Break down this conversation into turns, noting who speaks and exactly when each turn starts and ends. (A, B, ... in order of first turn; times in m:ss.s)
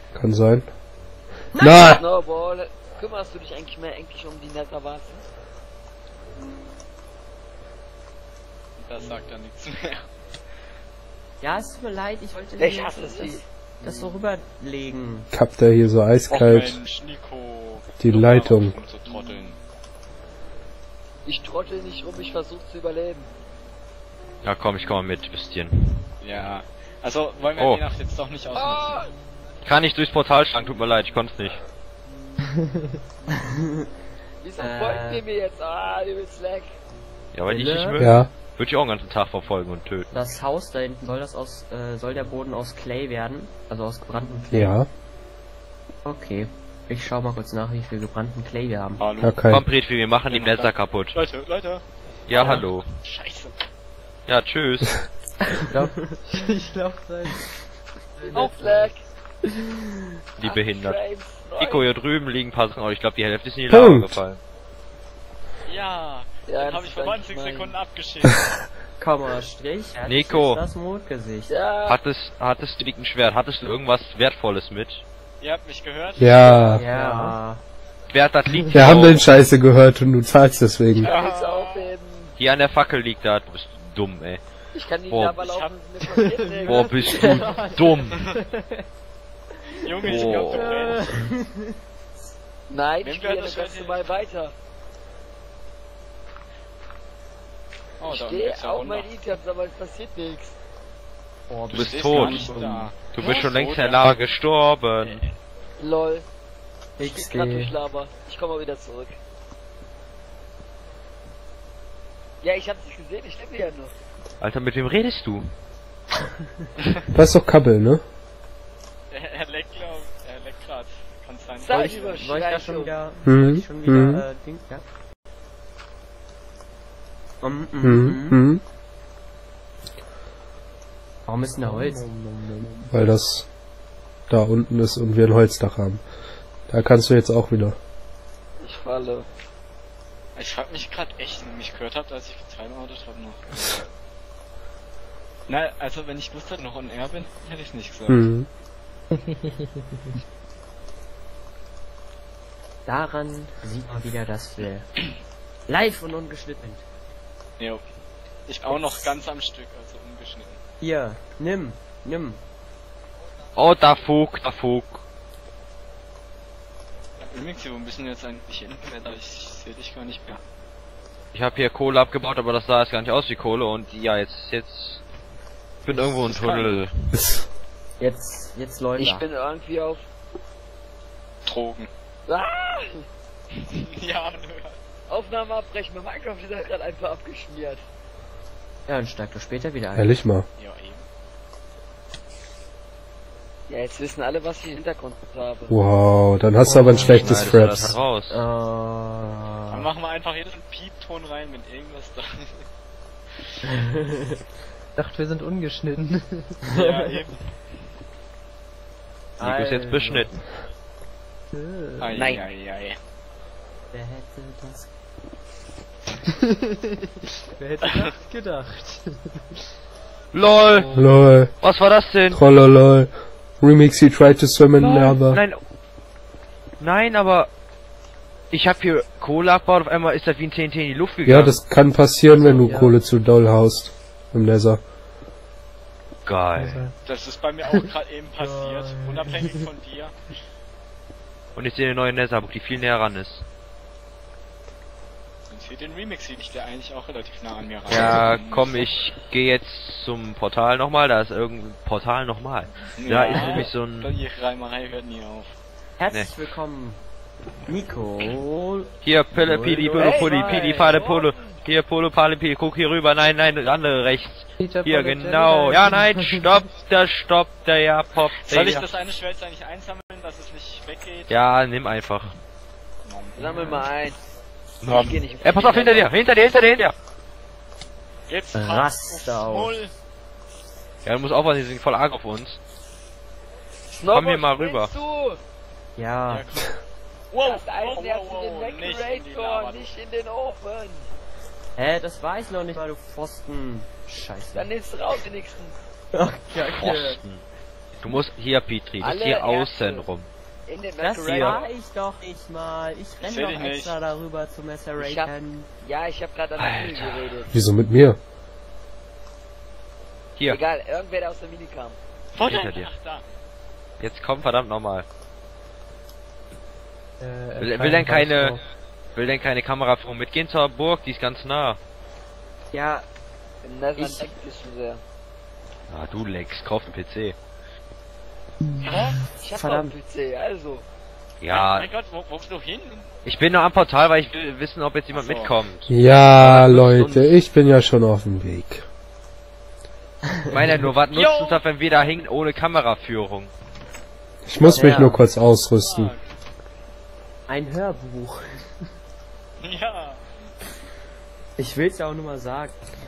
0:00.1-0:00.7 A
0:01.5-0:01.9 B
0:01.6-0:02.0 A
0:01.8-0:05.2 C
0:08.8-0:10.0 D
0:11.4-0:15.3 B
0:12.6-0:13.4 C
0:15.3-0:16.8 A
0:16.3-0:19.6 D
0:18.0-0:18.7 A
0:21.2-0:23.3 C
0:24.4-0:26.1 E
0:26.2-0:29.0 D
0:27.6-0:27.8 E
0:28.5-0:29.1 C
0:29.6-0:31.6 E
0:34.4-0:36.7 C
0:34.6-0:35.2 B
0:37.3-0:40.1 E
0:37.5-0:38.0 B
0:38.0-0:38.3 A
0:40.1-0:44.8 B
0:44.5-0:44.9 A
0:46.0-0:49.0 B
0:49.0-0:49.4 D
0:49.2-0:49.6 A
0:49.5-0:51.2 E
0:50.3-0:53.5 D
0:52.3-0:52.9 E
0:52.3-0:52.6 C
0:54.3-0:55.0 E
0:55.7-0:57.5 F
0:58.2-0:59.0 F
0:58.2-0:59.0 C
1:00.4-1:01.9 C
1:00.4-1:01.0 E
1:01.6-1:04.4 E
1:03.7-1:04.2 A
1:05.7-1:08.4 D
1:06.4-1:07.8 C
1:09.0-1:11.6 B
1:10.1-1:10.6 E
1:11.5-1:12.0 C
1:11.8-1:15.0 E
1:15.4-1:16.8 D
1:16.2-1:16.8 A
1:16.7-1:17.6 B
1:16.9-1:17.4 F
1:18.1-1:19.2 E
1:18.7-1:21.1 A
1:21.0-1:22.3 C
1:21.0-1:22.0 D
1:22.4-1:24.4 E
1:24.7-1:27.4 C
1:25.1-1:25.4 E
1:25.4-1:25.8 D
1:26.0-1:28.8 F
1:26.6-1:28.2 E
1:29.8-1:31.1 D
1:30.0-1:30.8 E
1:30.1-1:31.3 F
1:31.0-1:31.8 B
1:32.7-1:34.5 C
1:33.0-1:34.1 D
1:38.0-1:39.1 D
1:38.1-1:40.5 C
1:41.5-1:42.9 B
1:41.7-1:44.2 D
1:41.7-1:42.5 E
1:43.0-1:45.2 E
1:45.8-1:46.2 C
1:47.0-1:47.8 B
1:47.0-1:49.2 C
1:52.4-1:53.9 C
1:54.4-1:55.5 E
1:57.1-1:58.0 A
1:59.1-2:02.6 D
2:01.6-2:03.0 C
2:01.7-2:04.8 B
2:03.2-2:04.2 A
2:07.4-2:08.4 B
2:07.8-2:08.6 A
2:11.3-2:12.1 B
2:11.6-2:12.9 F
2:12.9-2:13.4 A
2:14.3-2:16.0 A
2:16.7-2:17.8 A
2:18.6-2:19.2 C
2:20.4-2:23.8 D
2:25.5-2:28.2 D
2:28.1-2:28.5 A
2:29.1-2:30.2 F
2:32.8-2:34.9 B
2:35.7-2:36.8 B
2:38.5-2:40.6 D
2:38.7-2:39.1 B
2:40.8-2:42.4 B
2:43.6-2:45.0 E
2:47.2-2:50.4 D
2:51.3-2:55.0 E
2:55.8-2:57.1 E
2:56.1-2:56.8 D
2:57.1-2:57.4 A
2:58.0-2:59.3 B
2:59.0-3:00.0 C
3:01.4-3:01.9 D
3:02.3-3:03.0 C
3:03.6-3:04.8 D
3:05.1-3:07.8 C
3:08.9-3:10.1 B
3:10.0-3:10.4 A
3:10.6-3:11.0 D
3:13.7-3:15.8 C
3:15.7-3:18.0 A
3:16.6-3:19.9 B
3:16.9-3:18.4 E
3:19.7-3:22.6 D
3:23.7-3:24.3 B
3:25.0-3:26.6 F
3:26.7-3:27.2 B
3:26.7-3:27.5 D
3:29.4-3:30.4 E
3:29.4-3:30.4 B
3:31.5-3:32.2 F
3:32.0-3:33.0 D
3:32.1-3:32.5 C
3:33.9-3:34.9 B
3:37.5-3:39.4 F
3:40.3-3:41.1 E
3:40.9-3:41.5 A
3:41.6-3:42.4 E
3:42.3-3:45.4 A
3:44.8-3:45.6 E
3:46.8-3:47.5 E
3:48.5-3:51.6 E
3:51.2-3:54.8 A
3:52.2-3:52.9 D
3:52.6-3:52.9 F
3:56.2-3:56.8 E
3:56.6-3:57.0 F
3:57.0-4:00.1 D
3:58.3-3:59.6 B
4:01.5-4:03.4 E
4:05.5-4:08.9 D
4:07.9-4:14.1 E
4:13.0-4:15.5 D
4:16.0-4:17.0 B
4:17.7-4:20.9 B
4:19.0-4:28.9 E
4:19.9-4:21.6 C
4:20.2-4:20.7 F
4:24.6-4:26.5 F
4:28.2-4:31.4 D
4:31.3-4:32.4 E
4:33.0-4:33.8 D
4:33.4-4:34.2 C
4:33.4-4:33.8 B
4:34.8-4:36.9 E
4:34.9-4:36.1 C
4:38.3-4:39.9 D
4:38.5-4:39.8 B
4:41.0-4:42.6 E
4:43.9-4:45.4 C
4:44.1-4:44.9 E
4:46.0-4:46.7 B
4:46.3-4:46.7 D
4:47.3-4:50.0 D
4:47.4-4:51.1 C
4:51.8-4:54.8 B
4:54.5-4:55.8 C
4:56.1-4:57.2 B
4:56.6-4:57.4 E
4:58.0-5:00.3 E
4:59.0-5:00.1 C
5:00.6-5:01.7 C
5:01.0-5:05.7 B
5:01.3-5:01.6 D
5:03.2-5:04.0 D
5:05.0-5:07.5 C
5:06.6-5:07.4 E
5:07.5-5:08.2 A
5:10.4-5:10.6 E
5:10.4-5:12.0 C
5:12.3-5:13.2 D
5:12.5-5:12.9 E
5:14.0-5:15.0 E
5:17.2-5:18.6 F
5:17.6-5:18.6 E
5:19.1-5:21.8 E
5:22.7-5:23.1 B
5:23.6-5:25.0 C
5:23.9-5:24.4 B
5:25.9-5:27.3 E
5:28.9-5:29.2 D
5:29.4-5:30.8 C
5:29.4-5:30.0 B
5:31.4-5:31.9 E
5:31.4-5:33.1 D
5:33.2-5:37.3 E
5:35.1-5:35.5 D
5:35.9-5:38.8 A
5:40.3-5:40.6 B
5:40.5-5:43.5 E
5:41.1-5:41.6 D
5:44.4-5:46.1 A
5:44.6-5:45.2 B
5:45.8-5:46.2 D
5:47.5-5:48.6 B
5:49.6-5:50.2 D
5:51.6-5:52.8 B